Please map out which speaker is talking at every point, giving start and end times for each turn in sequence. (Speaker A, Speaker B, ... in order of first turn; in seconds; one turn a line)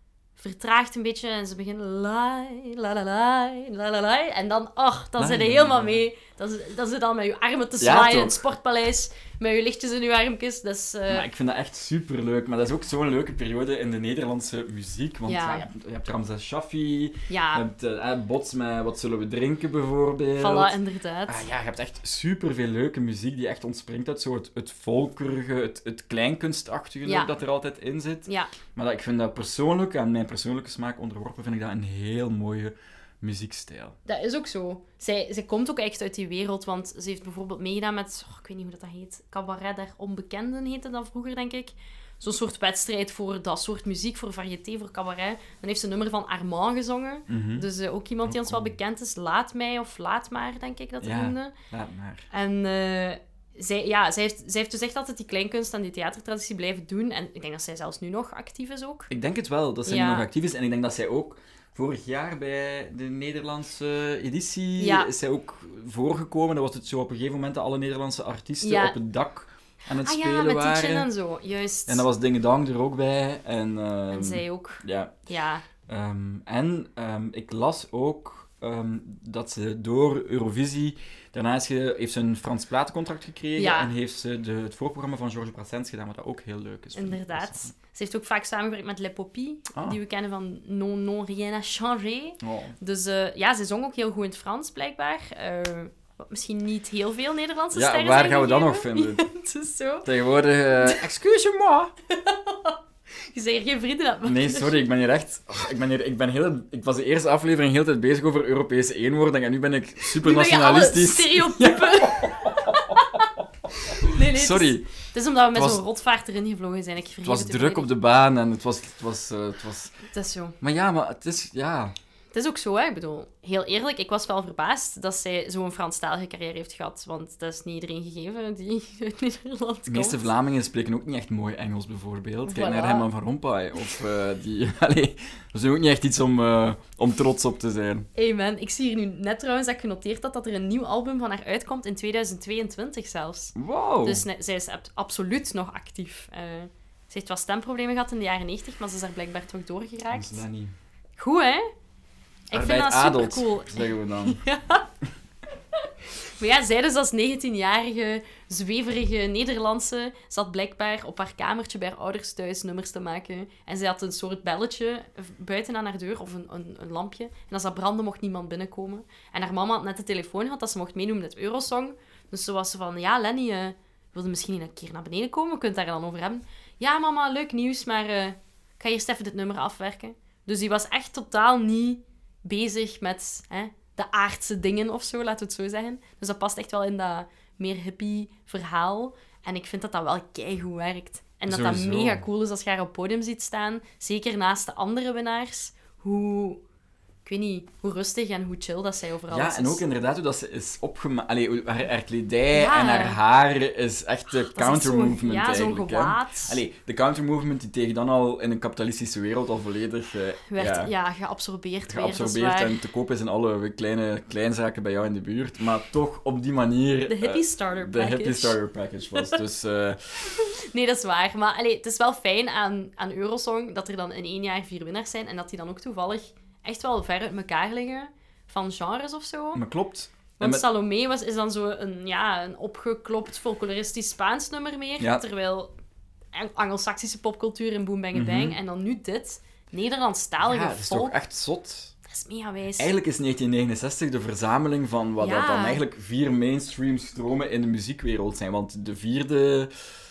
Speaker A: 0.4-11.3
Speaker B: 5.2-6.0
Speaker B: 7.8-8.4
Speaker B: 11.1-34.0
Speaker A: 15.3-15.7
Speaker A: 17.3-17.6
Speaker A: 20.4-21.4
Speaker A: 27.0-27.3
Speaker A: 34.0-51.5
Speaker B: 47.3-47.7
Speaker B: 48.2-48.8
Speaker B: 51.0-52.3
Speaker A: 52.3-59.1
Speaker B: 59.1-71.1
Speaker A: 59.9-60.3
Speaker A: 64.8-65.1
Speaker A: 68.6-69.0
Speaker A: 70.0-72.0
Speaker B: 71.9-75.1
Speaker A: 74.1-75.6
Speaker B: 75.8-87.7
Speaker A: 83.5-83.9
Speaker A: 86.9-100.1
Speaker B: 92.4-92.7
Speaker B: 97.7-99.3
Speaker B: 100.0-101.9
Speaker A: 102.1-102.8
Speaker A: 103.3-104.8
Speaker B: 104.2-113.0
Speaker A: 110.1-113.3
Speaker A: 113.8-117.9
Speaker B: 114.0-114.9
Speaker B: 115.5-115.8
Speaker B: 117.2-119.9
Speaker A: 120.1-120.6
Speaker B: 120.6-121.9
Speaker A: 122.3-130.3
Speaker B: 129.9-138.1
Speaker A: 132.4-133.1
Speaker A: 138.2-150.4
Speaker B: 143.5-144.2
Speaker B: 150.1-150.7
Speaker A: 151.2-151.7
Speaker B: 152.5-154.4
Speaker A: 152.5-154.9
Speaker A: 155.8-196.6
Speaker B: 191.5-192.2
Speaker A: 197.2-199.8
Speaker B: 199.3-210.9
Speaker A: 202.5-203.2
Speaker A: 204.3-206.6
Speaker A: 210.5-212.8
Speaker B: 211.9-220.1
Speaker A: 217.1-218.6
Speaker A: 220.3-229.6
Speaker B: 229.5-230.6
Speaker A: 230.4-235.7
Speaker B: 235.0-235.2
Speaker A: 236.3-241.2
Speaker B: 238.1-238.6
Speaker B: 240.4-241.9
Speaker A: 242.1-242.9
Speaker B: 242.8-249.7
Speaker A: 245.2-245.8